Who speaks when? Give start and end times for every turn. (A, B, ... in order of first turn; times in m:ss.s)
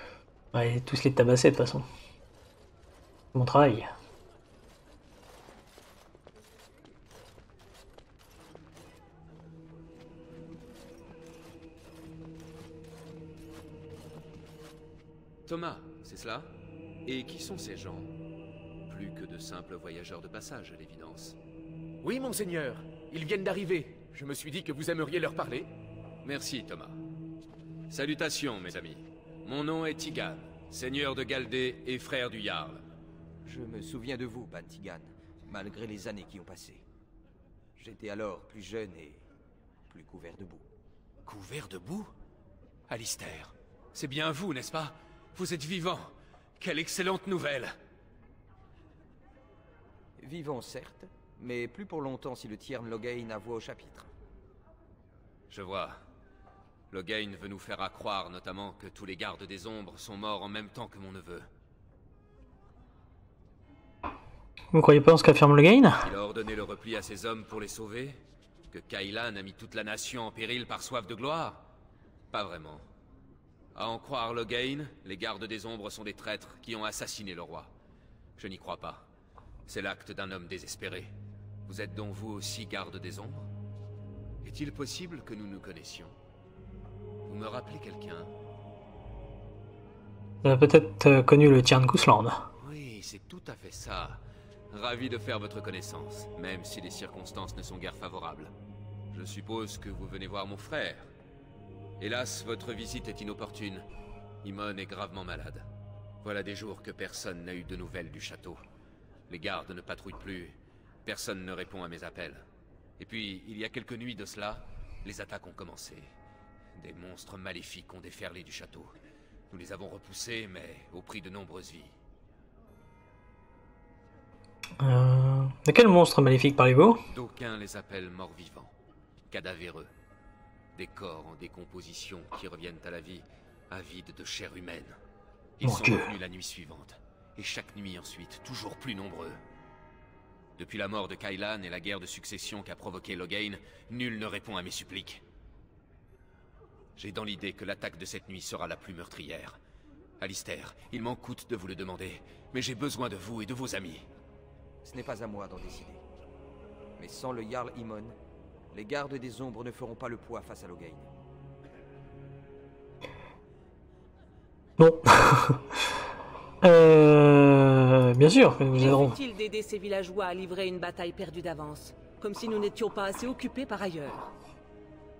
0:00.5-0:01.8 A
0:03.3-0:03.9 A
0:15.5-0:16.5 B
0:17.0-0:18.1 B
0:18.9-0:21.4 B
0:22.0-0:25.7 C
0:26.2-0:27.0 B
0:27.9-0:32.8 B
0:33.4-0:36.8 D
0:37.8-0:39.3 D
0:39.9-0:40.7 D
0:41.2-0:42.1 B
0:42.9-0:47.7 B
0:50.2-0:54.1 D
0:55.5-0:56.0 B
0:56.9-1:01.5 B
1:04.7-1:06.1 A
1:06.0-1:11.6 B
1:12.3-1:12.8 B
1:13.7-1:17.7 B
1:18.4-1:19.1 B
1:19.7-1:21.1 B
1:21.6-1:23.5 B
1:24.4-1:26.1 B
1:27.2-1:28.3 B
1:30.4-1:32.4 A
1:32.6-1:38.5 B
1:39.1-1:41.1 B
1:42.0-1:43.8 B
1:44.4-1:45.6 B
1:46.2-1:48.6 B
1:49.3-1:52.4 B
1:53.0-1:56.1 B
1:56.8-1:58.9 B
1:59.5-2:02.0 B
2:04.8-2:07.0 A
2:07.1-2:08.7 B
2:09.3-2:09.9 B
2:10.7-2:15.0 B
2:15.6-2:19.4 B
2:15.6-2:16.1 A
2:20.6-2:25.2 B
2:27.0-2:29.6 B
2:30.2-2:34.0 B
2:34.8-2:36.0 D
2:37.0-2:38.2 D
2:38.7-2:41.1 D
2:44.8-2:45.6 A
2:46.6-2:49.2 A
2:48.7-2:54.3 E